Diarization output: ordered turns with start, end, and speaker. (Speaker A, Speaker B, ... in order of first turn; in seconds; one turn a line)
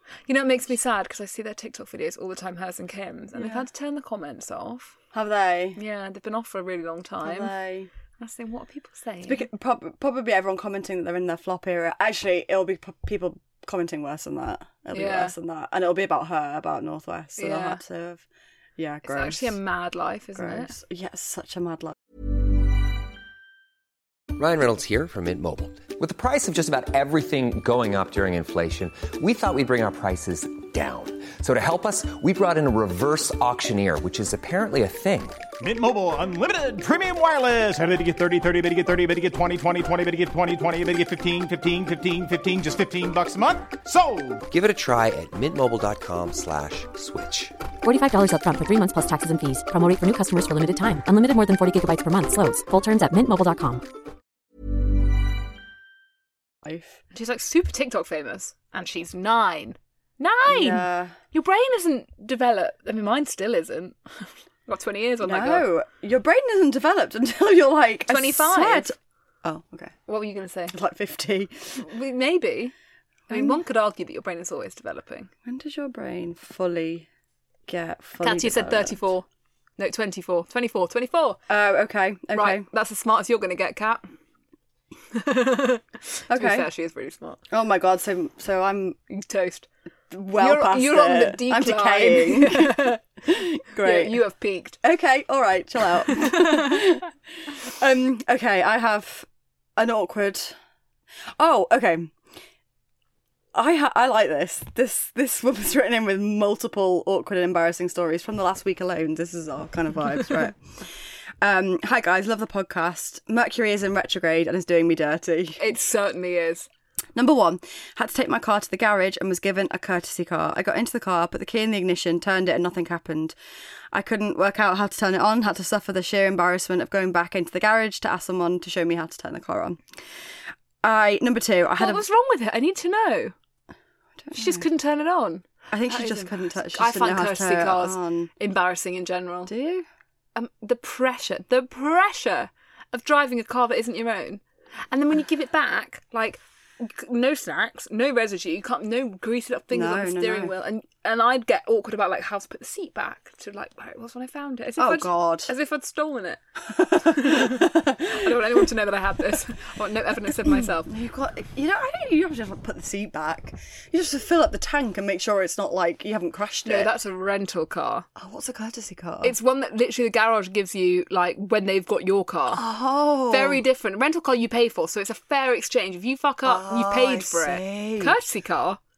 Speaker A: 0.3-5.0
Speaker B: 3.3-3.6
Speaker B: 5.1-5.8
Speaker A: 5.8-7.5
Speaker B: 7.2-7.9
Speaker A: 8.2-9.5
Speaker B: 9.2-18.2
Speaker A: 14.9-15.3
Speaker A: 17.4-17.8
Speaker B: 18.8-19.6
Speaker A: 19.0-20.8
Speaker B: 20.4-21.9
Speaker C: 24.3-35.4
Speaker D: 35.6-44.4
Speaker C: 44.5-47.5
Speaker E: 47.8-53.9
Speaker B: 56.6-57.0
Speaker A: 57.1-65.7
Speaker B: 60.5-61.1
Speaker B: 65.2-70.0
Speaker A: 68.1-68.9
Speaker A: 70.1-70.8
Speaker B: 70.7-71.9
Speaker A: 71.8-72.7
Speaker A: 73.3-75.3
Speaker B: 73.3-73.6
Speaker B: 75.4-77.1
Speaker B: 77.7-79.1
Speaker A: 78.2-79.2
Speaker A: 79.8-81.4
Speaker B: 81.5-82.7
Speaker A: 82.3-84.1
Speaker A: 85.1-87.4
Speaker B: 86.3-86.7
Speaker B: 87.5-89.0
Speaker A: 89.1-89.7
Speaker B: 90.1-94.2
Speaker A: 90.4-93.0
Speaker A: 93.8-94.8
Speaker B: 94.8-97.1
Speaker A: 96.1-96.7
Speaker B: 97.6-100.5
Speaker B: 101.4-102.2
Speaker B: 103.5-115.6
Speaker A: 115.6-116.7
Speaker B: 117.1-123.3
Speaker B: 123.9-130.0
Speaker B: 130.8-132.0
Speaker A: 131.8-133.3
Speaker B: 134.2-134.6
Speaker A: 134.3-139.5
Speaker B: 135.7-138.3
Speaker B: 139.4-139.9
Speaker A: 140.3-156.4
Speaker B: 149.7-150.6
Speaker B: 154.8-155.5
Speaker B: 156.7-158.7
Speaker A: 157.0-160.9
Speaker B: 160.3-166.9
Speaker A: 166.6-168.1
Speaker B: 168.2-169.3
Speaker A: 169.2-172.6
Speaker B: 172.5-173.6
Speaker A: 173.3-178.8
Speaker B: 176.4-178.2